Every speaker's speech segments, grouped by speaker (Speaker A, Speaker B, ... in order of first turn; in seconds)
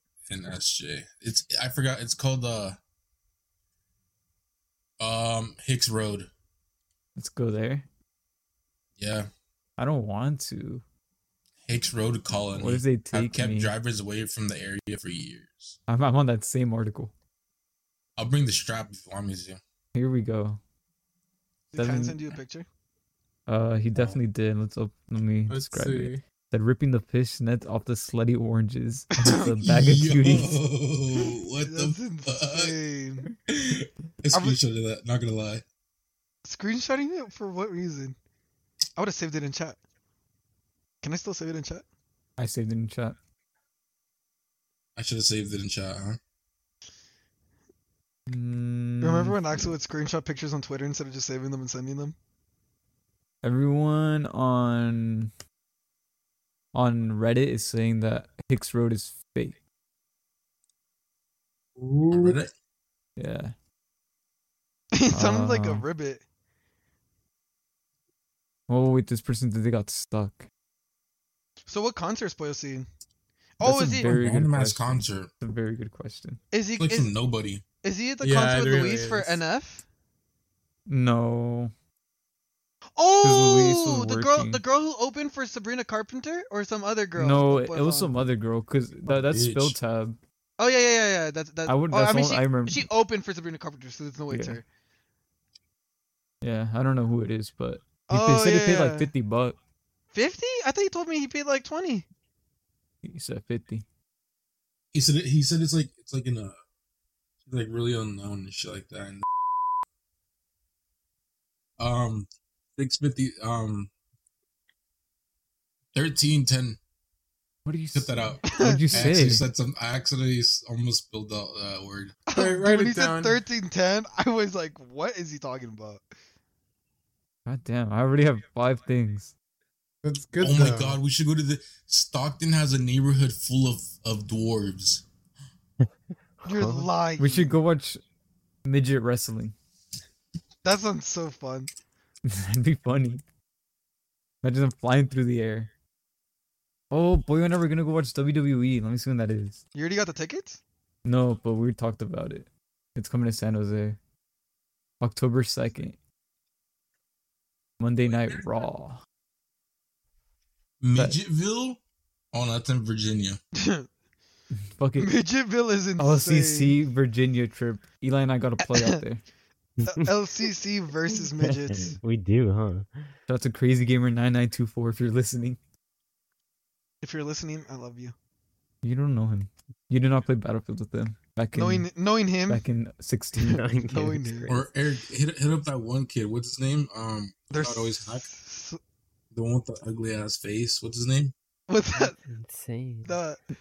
Speaker A: 0.3-2.8, 5.0-6.3, 9.0-9.3, 11.6-15.8, 18.2-19.6, 29.3-32.8, 33.5-35.6, 45.0-46.2, 62.1-62.5, 74.0-75.3, 76.8-77.6, 89.1-89.8, 104.9-106.6, 107.5-109.2, 111.8-113.9, 115.9-116.8, 117.9-122.2, 130.4-135.0, 160.8-161.8, 162.3-163.4, 184.5-188.3, 189.3-191.3
Speaker B: 7.2-7.9, 9.8-10.8, 12.6-13.7, 15.9-17.1, 19.9-20.6, 21.8-22.2, 23.5-30.6, 42.4-43.2, 48.3-49.7, 53.4-55.3, 56.7-59.6, 63.2-63.5, 65.1-65.8, 68.7-70.5, 73.6-76.4, 80.9-81.7, 83.2-84.6, 87.2-90.2, 91.7-92.9, 94.3-94.6, 96.4-99.6, 103.0-103.9, 117.7-119.5, 127.5-129.3, 137.2-138.0, 138.7-139.6, 142.2-143.2, 144.4-145.7, 146.9-149.6, 151.1-154.0, 155.0-156.0, 157.8-159.0, 164.5-165.1, 166.0-169.2, 173.3-175.6, 178.8-181.9, 182.5-183.7
Speaker C: 21.7-22.7, 29.2-29.5, 31.6-33.3, 34.3-34.6, 36.5-38.2, 39.0-39.8, 41.0-41.9, 49.0-52.1, 64.9-66.2, 71.7-72.9, 73.6-74.2, 76.5-77.1, 77.8-79.8, 83.0-88.1, 90.6-94.7, 98.1-99.1, 100.1-102.1, 118.5-119.1, 122.3-126.0, 136.4-137.6, 140.6-141.7, 149.8-150.6, 163.6-163.9, 165.0-166.8, 168.7-169.0, 169.9-172.0, 177.0-178.1, 181.5-182.6, 183.9-184.5, 187.5-188.8, 191.7-192.2, 193.1-193.4
Speaker D: 25.5-26.2, 61.9-62.4, 78.2-79.4, 122.3-123.4, 130.0-131.0
Speaker E: 136.4-136.9, 169.8-170.1, 171.7-173.1, 183.5-184.7, 192.0-193.1